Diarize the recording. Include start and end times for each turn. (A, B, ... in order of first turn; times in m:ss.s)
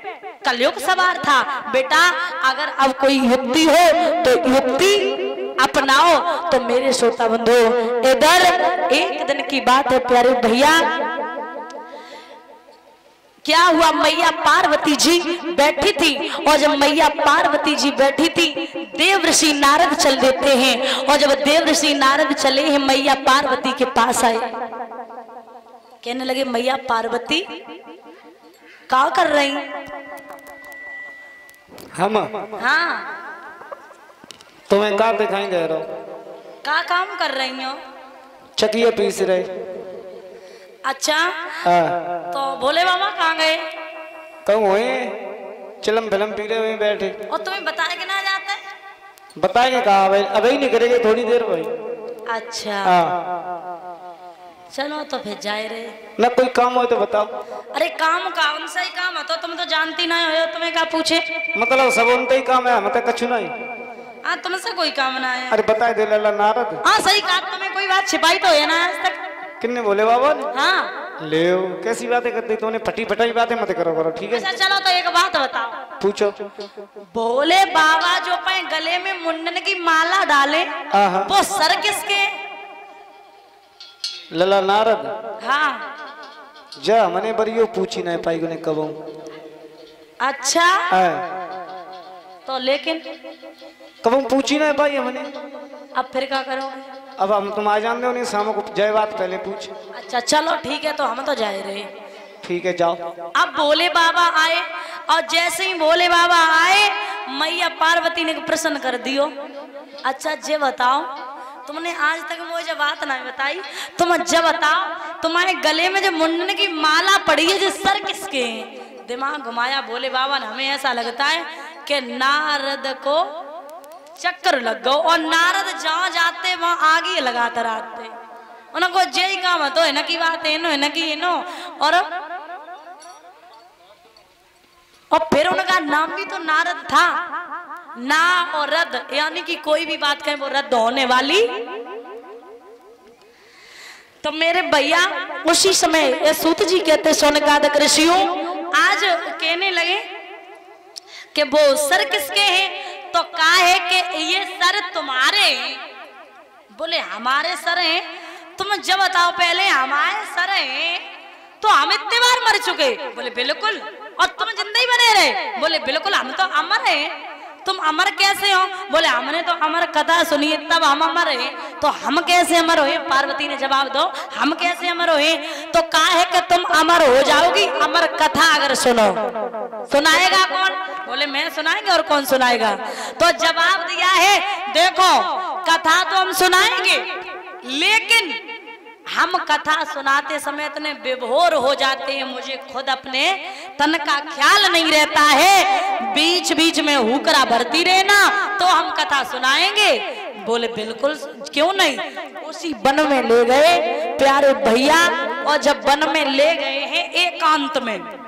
0:00.4-0:10.8 A
0:13.4-0:24.5 A
0:26.0-0:27.4 A
0:28.9-0:29.6 A
0:32.0-0:32.5 B
0:32.6-0:33.1 A
0:34.7-0:35.9 B
0:36.6-0:37.8 A
0:38.6-0:39.5 B
0:40.9-0:41.4 A
0:41.6-0:42.0 B
0:42.3-0:43.6 A
0:44.5-0:45.1 B
0:45.8-0:47.2 B
0:47.3-0:48.6 A
0:49.4-0:51.7 B
0:52.3-0:53.0 A
0:52.8-0:53.2 B
0:54.7-0:56.0 A
0:56.2-0:57.3 B
0:57.7-1:01.2 A
1:01.6-1:03.5 B
1:04.2-1:05.6 A
1:05.5-1:06.8 B
1:06.8-1:09.2 A
1:09.6-1:10.5 B
1:10.5-1:10.9 A
1:11.2-1:14.5 B
1:14.3-1:15.8 A
1:16.0-1:16.3 B
1:17.1-1:20.7 A
1:20.9-1:21.3 B
1:21.3-1:22.3 A
1:24.3-1:25.1 B
1:25.4-1:25.9 A
1:26.8-1:28.9 B
1:30.2-1:30.9 A
1:30.9-1:31.2 B
1:32.4-1:33.0 A
1:34.0-1:35.3 B
1:36.0-1:36.8 A
1:37.2-1:39.7 B
1:40.0-1:41.9 A
1:42.4-1:43.0 B
1:43.4-1:49.3 A
1:50.0-1:51.1 A
1:51.6-2:03.3 A
2:04.2-2:08.1 A
2:08.7-2:12.1 A
2:15.1-2:17.2 A
2:18.0-2:21.5 A
2:24.2-2:30.0 A
2:31.3-2:35.8 A
2:36.7-2:38.0 A
2:38.6-2:41.0 A
2:41.6-2:59.2 A
2:59.9-3:07.1 A
3:07.6-3:08.4 A
3:09.1-3:28.1 A